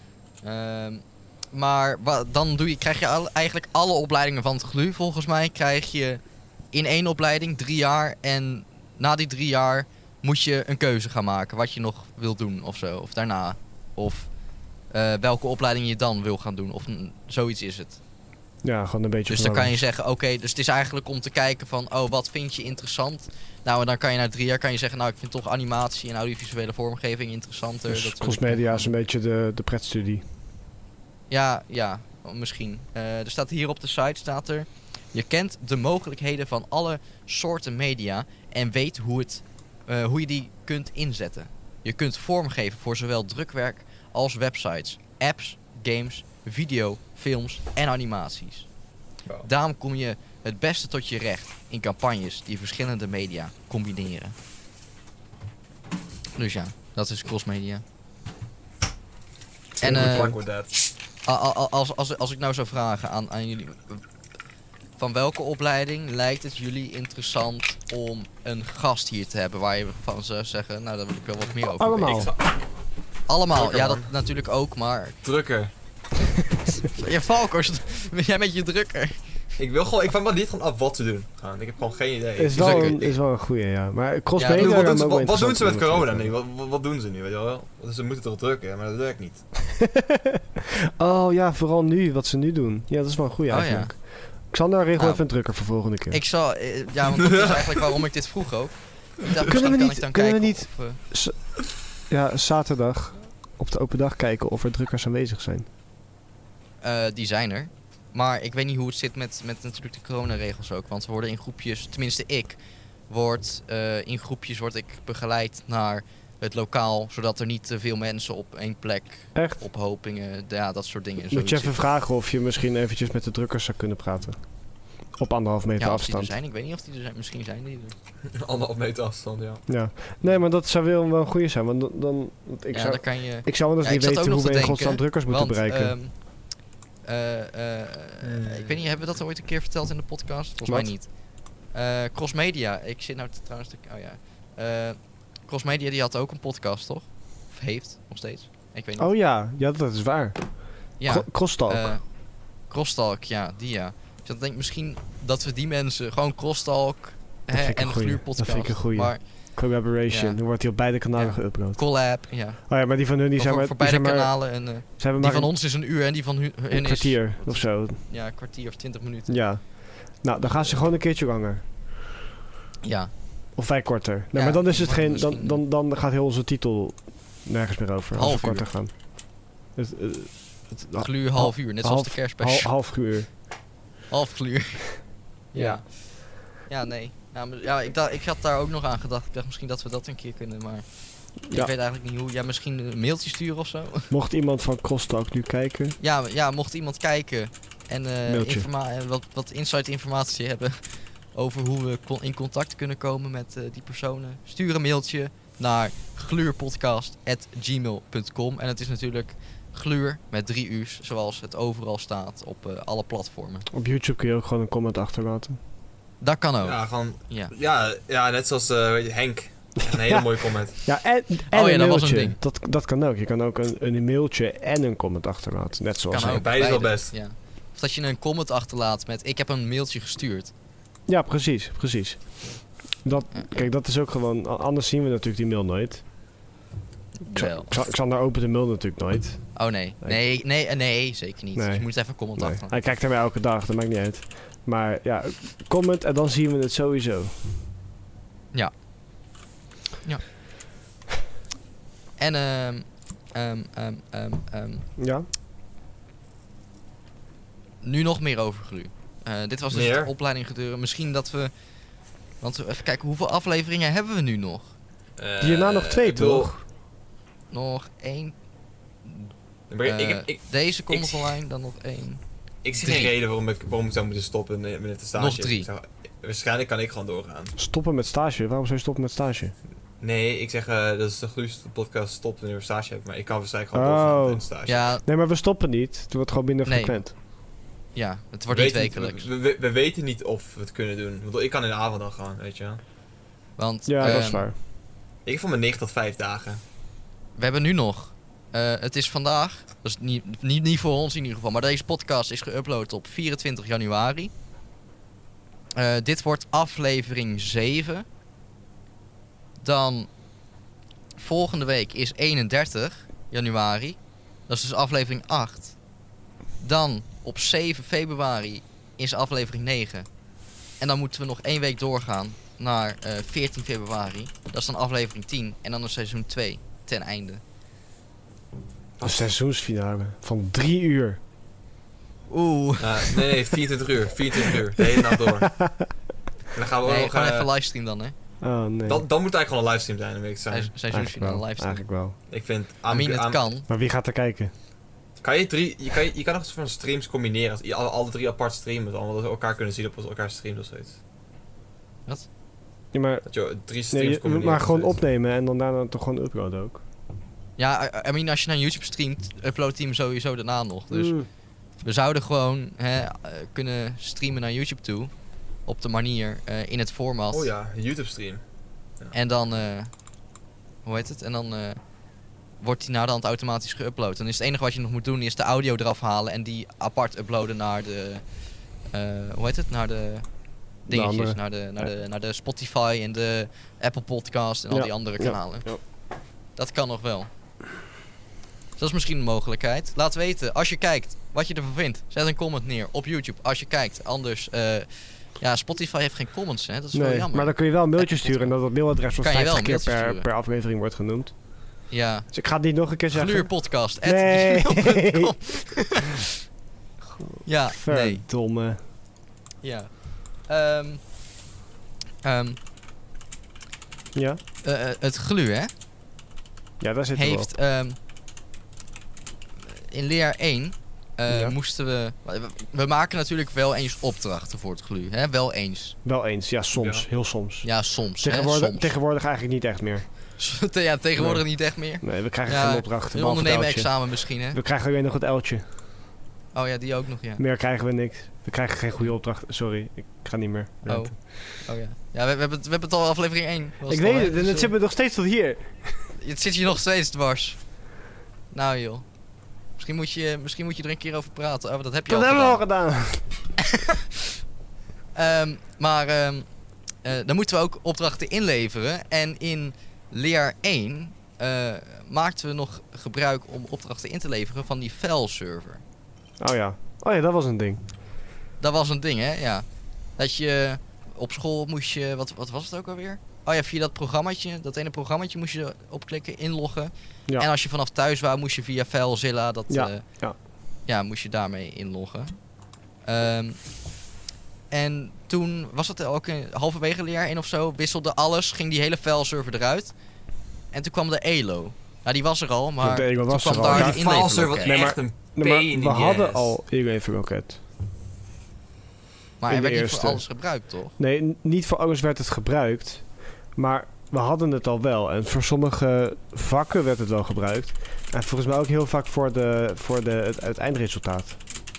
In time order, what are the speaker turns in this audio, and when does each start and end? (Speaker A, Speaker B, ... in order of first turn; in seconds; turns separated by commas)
Speaker A: 0.4-14.3, Speaker A: 14.9-18.0, Speaker B: 18.6-19.8, Speaker A: 19.3-28.9, Speaker B: 27.9-30.2, Speaker A: 31.3-48.7, Speaker A: 49.4-54.4, Speaker A: 56.4-57.8, Speaker A: 59.8-60.4, Speaker C: 59.8-60.7, Speaker B: 59.8-60.4, Speaker A: 61.2-64.0, Speaker A: 65.0-72.3, Speaker B: 71.8-72.3, Speaker C: 72.1-72.6, Speaker A: 73.3-75.2, Speaker C: 73.5-74.1, Speaker C: 75.2-75.7, Speaker A: 76.9-79.3, Speaker C: 79.6-83.2, Speaker B: 82.4-86.3, Speaker A: 82.5-83.0, Speaker A: 84.4-84.9, Speaker C: 84.5-89.5, Speaker B: 89.9-90.4, Speaker B: 91.0-96.2, Speaker A: 93.5-94.0, Speaker A: 95.0-95.3, Speaker A: 96.1-101.0, Speaker C: 97.3-97.6, Speaker B: 99.5-105.7, Speaker A: 106.8-121.7, Speaker B: 119.3-119.6, Speaker B: 121.3-124.4, Speaker B: 125.1-126.3, Speaker A: 125.8-128.0, Speaker C: 128.3-129.7, Speaker B: 129.7-136.0, Speaker A: 132.7-149.1, Speaker C: 138.2-138.8, Speaker B: 140.7-140.9, Speaker B: 149.0-151.9, Speaker A: 151.0-159.6, Speaker B: 157.5-165.5, Speaker A: 160.1-160.4, Speaker A: 161.2-169.4, Speaker B: 166.7-168.0, Speaker B: 169.3-171.6, Speaker A: 170.4-170.8, Speaker A: 172.8-173.1, Speaker B: 173.6-183.3, Speaker A: 174.3-175.6, Speaker A: 178.2-178.7, Speaker A: 181.0-182.7, Speaker A: 184.1-194.1, Speaker B: 185.6-185.8, Speaker B: 194.1-196.0, Speaker A: 196.0-213.7, Speaker B: 198.3-198.7, Speaker B: 213.7-215.6, Speaker A: 216.2-217.5, Speaker C: 216.6-220.8, Speaker B: 220.0-226.5, Speaker A: 221.5-222.4, Speaker A: 226.1-230.5, Speaker C: 226.3-227.1, Speaker B: 231.1-236.0, Speaker A: 233.3-233.7, Speaker A: 237.2-237.8, Speaker B: 237.3-240.4, Speaker A: 239.5-242.7, Speaker B: 241.6-247.4, Speaker A: 252.2-254.9, Speaker B: 255.0-255.3, Speaker A: 257.8-261.5, Speaker C: 259.7-260.1, Speaker A: 262.4-264.7, Speaker C: 265.2-266.5, Speaker B: 265.4-266.6, Speaker A: 267.5-268.4, Speaker A: 269.0-269.3, Speaker C: 269.7-271.3, Speaker A: 269.8-273.1, Speaker C: 272.6-277.6, Speaker A: 275.2-275.7, Speaker B: 277.6-279.5, Speaker C: 280.0-284.8, Speaker B: 283.7-284.5, Speaker A: 284.7-285.0, Speaker B: 285.0-287.1, Speaker A: 286.7-287.0, Speaker A: 287.9-289.3, Speaker C: 288.5-292.8, Speaker A: 293.6-294.5, Speaker B: 293.9-294.6, Speaker C: 295.2-296.6, Speaker A: 297.4-304.3, Speaker A: 305.8-308.1, Speaker A: 309.6-310.1, Speaker A: 311.2-315.8, Speaker A: 316.6-320.1, Speaker A: 320.8-327.4, Speaker C: 329.0-329.3, Speaker B: 329.0-331.2, Speaker A: 332.3-333.3, Speaker C: 332.8-335.6, Speaker B: 335.5-335.9, Speaker C: 336.5-337.5, Speaker A: 336.9-338.1, Speaker B: 338.4-339.0, Speaker C: 338.9-340.7, Speaker A: 340.5-341.8, Speaker B: 340.9-342.2, Speaker C: 342.3-343.5, Speaker A: 342.9-343.7, Speaker B: 343.7-344.5, Speaker C: 345.2-351.0, Speaker B: 352.9-353.3, Speaker C: 353.3-355.0, Speaker B: 353.8-356.8, Speaker A: 357.6-361.2, Speaker B: 360.9-361.3, Speaker A: 361.8-365.1, Speaker A: 365.6-367.5, Speaker C: 367.3-368.4, Speaker A: 369.1-369.9, Speaker A: 370.9-371.8, Speaker A: 372.6-378.2, Speaker A: 378.9-380.3, Speaker A: 380.8-385.7, Speaker B: 380.9-381.9, Speaker B: 384.7-385.8, Speaker A: 386.6-387.3, Speaker A: 388.8-400.3, Speaker B: 396.9-401.6, Speaker A: 401.9-402.4, Speaker B: 402.3-405.3, Speaker A: 403.1-406.2, Speaker B: 407.2-408.8, Speaker A: 407.4-408.2, Speaker A: 409.6-411.1, Speaker A: 412.2-412.6, Speaker B: 414.1-414.4, Speaker A: 414.6-415.7, Speaker B: 416.8-417.5, Speaker A: 417.1-418.0, Speaker A: 419.7-426.0, Speaker B: 421.3-421.6, Speaker B: 426.1-430.4, Speaker C: 426.8-427.1, Speaker A: 427.6-429.0, Speaker A: 430.4-434.6, Speaker B: 431.2-435.6, Speaker A: 436.5-437.4, Speaker B: 437.4-441.3, Speaker A: 440.9-444.7, Speaker B: 443.9-446.1, Speaker A: 446.2-447.8, Speaker A: 448.5-449.1, Speaker A: 449.7-452.6, Speaker B: 452.1-453.3, Speaker A: 455.1-456.5, Speaker A: 457.0-465.8, Speaker B: 466.4-467.8, Speaker A: 468.6-469.6, Speaker A: 470.2-480.2, Speaker B: 479.7-480.4, Speaker A: 480.8-482.5, Speaker A: 483.0-483.9, Speaker A: 484.7-489.9, Speaker A: 490.7-494.9, Speaker B: 492.8-497.6, Speaker C: 493.7-496.6, Speaker A: 499.4-500.9, Speaker B: 499.5-500.3, Speaker B: 501.0-511.4